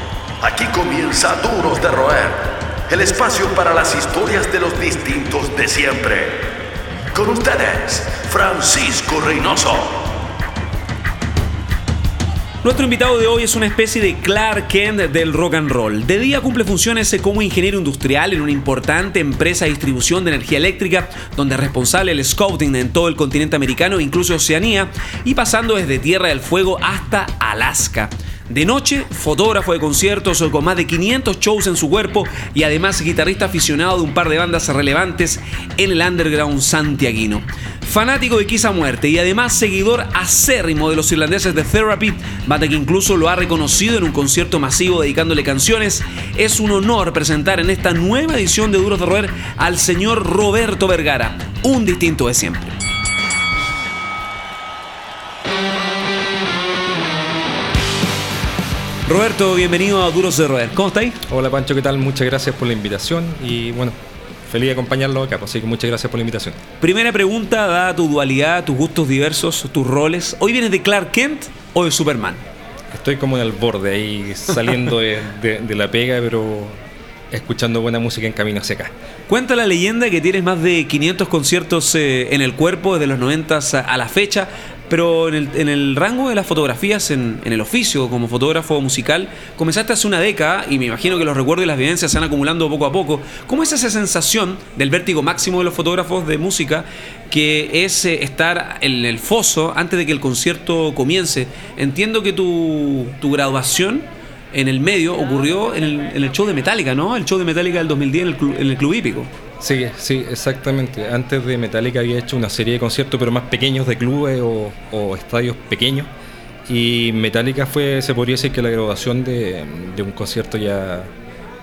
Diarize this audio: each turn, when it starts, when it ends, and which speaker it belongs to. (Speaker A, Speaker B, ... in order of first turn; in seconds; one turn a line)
Speaker A: 0.4-6.5
Speaker A: 7.1-10.1
Speaker B: 12.6-52.8
Speaker B: 59.0-61.2
Speaker C: 61.3-64.0
Speaker C: 64.5-66.6
Speaker B: 66.8-72.4
Speaker C: 72.9-76.8
Speaker C: 77.3-78.9
Speaker B: 79.3-109.3
Speaker C: 109.6-116.1
Speaker C: 116.7-121.1